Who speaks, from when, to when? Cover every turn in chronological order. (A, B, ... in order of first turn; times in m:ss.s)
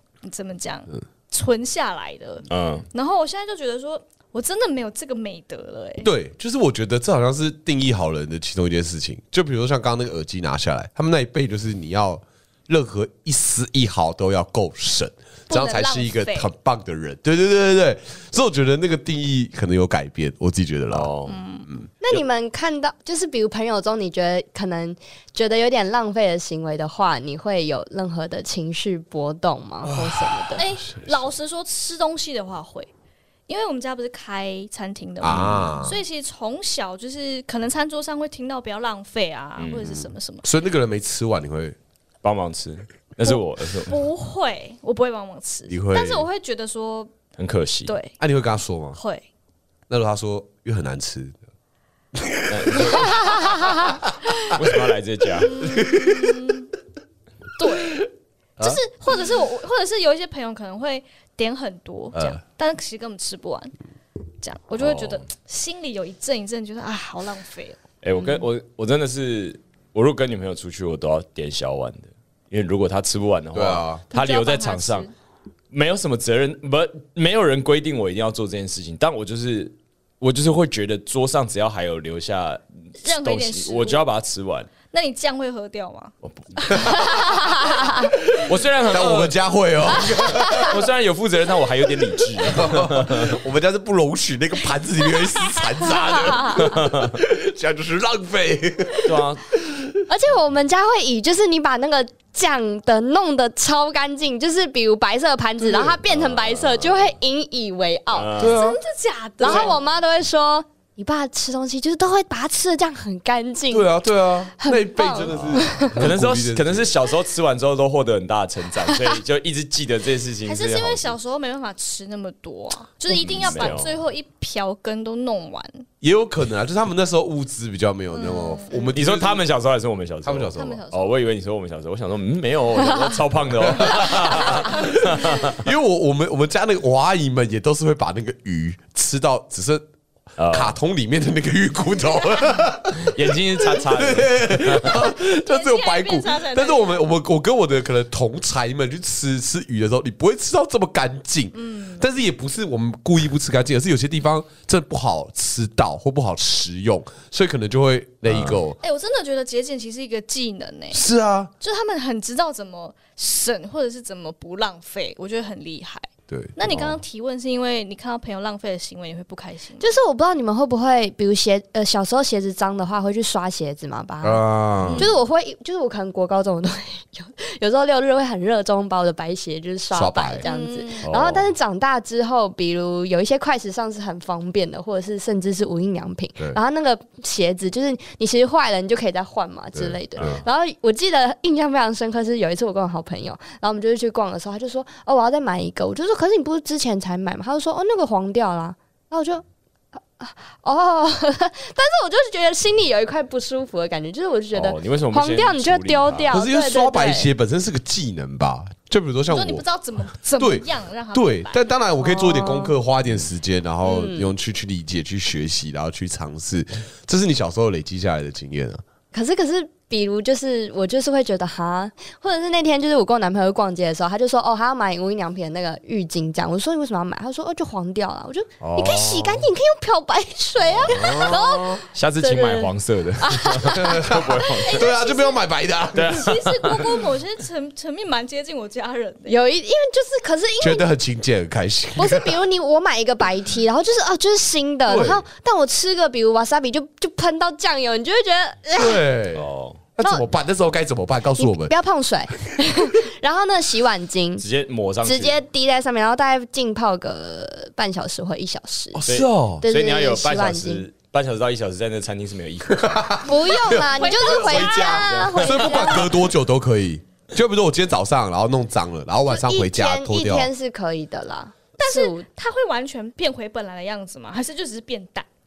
0:00.2-0:06.1 A
0:02.5-0:02.8 B
0:06.0-0:21.1 C
0:15.5-0:16.5 A
0:20.9-0:21.4 B
0:21.2-0:21.7 A
0:22.0-0:30.6 D
0:29.8-0:31.2 C
0:30.5-0:32.9 A
0:33.5-0:40.4 A
0:35.2-0:36.0 C
0:35.2-0:35.7 B
0:39.6-0:40.1 B
0:40.4-0:41.8 C
0:42.2-0:44.0 B
0:43.2-0:47.1 A
0:45.7-0:46.3 C
0:47.4-0:47.9 B
0:47.8-0:48.2 A
0:48.2-0:49.0 C
0:48.9-0:49.2 A
0:49.9-0:51.4 C
0:52.1-0:54.0 C
0:52.5-0:53.9 B
0:54.4-0:55.6 B
0:55.4-0:56.7 A
0:55.6-0:56.5 C
0:57.6-0:58.1 A
0:58.6-1:03.7 A
1:02.1-1:02.4 C
1:04.4-1:07.8 A
1:04.8-1:05.2 B
1:08.0-1:15.1 B
1:13.5-1:14.0 C
1:14.1-1:15.1 A
1:15.7-1:24.7 B
1:23.0-1:24.0 A
1:24.9-1:28.0 A
1:26.2-1:27.1 B
1:28.0-1:30.8 C
1:28.4-1:33.4 B
1:32.4-1:40.0 C
1:35.1-1:36.5 A
1:36.6-1:37.1 B
1:39.0-1:39.4 B
1:40.1-1:48.3 D
1:45.6-1:46.0 C
1:46.0-1:47.1 B
1:48.1-1:48.6 B
1:48.4-1:48.8 C
1:48.4-1:49.8 A
1:49.4-1:54.0 D
1:49.4-1:49.7 B
1:53.7-1:56.9 C
1:54.5-1:56.0 D
1:55.3-2:01.2 B
2:00.4-2:05.8 A
2:03.1-2:04.0 B
2:03.1-2:03.8 C
2:06.0-2:09.4 C
2:08.1-2:08.9 A
2:08.9-2:15.6 B
2:10.2-2:10.8 C
2:10.6-2:11.2 A
2:13.7-2:19.8 C
2:20.4-2:20.8 B
2:20.5-2:38.8 C
2:23.0-2:25.0 B
2:24.9-2:27.0 A
2:31.5-2:32.1 A
2:38.3-2:38.6 B
2:38.8-2:41.0 A
2:40.9-2:41.5 C
2:41.6-2:50.0 A
2:46.3-2:47.0 C
2:49.8-3:19.4 D
2:54.2-2:55.1 C
2:59.9-3:00.4 C
3:00.4-3:01.1 A
3:01.0-3:01.5 B
3:09.7-3:10.4 C
3:10.2-3:10.4 B
3:20.2-3:27.3 D
3:24.5-3:26.4 B
3:26.3-3:29.6 C
3:29.3-3:31.6 A
3:30.4-3:38.8 C
3:32.0-3:32.7 D
3:33.8-3:34.3 D
3:39.1-3:54.1 D
3:48.6-3:49.2 C
3:48.7-3:49.1 B
3:50.6-3:51.3 B
3:50.9-3:51.8 C
3:51.9-3:55.0 B
3:53.7-3:56.3 C
3:54.6-3:55.4 A
3:55.9-3:57.0 B
3:56.0-3:59.4 A
3:59.3-4:00.8 D
4:00.6-4:02.4 C
4:02.0-4:09.0 D
4:04.9-4:05.2 C
4:08.8-4:09.4 C
4:09.3-4:09.8 B
4:10.0-4:11.7 C
4:11.4-4:14.4 D
4:14.4-4:15.4 B
4:15.0-4:19.0 D
4:18.9-4:19.6 C
4:19.1-4:23.2 B
4:19.6-4:20.8 D
4:22.7-4:30.5 C
4:23.2-4:26.1 D
4:23.7-4:26.0 A
4:24.7-4:25.8 B
4:29.3-4:32.2 D
4:31.8-4:35.3 A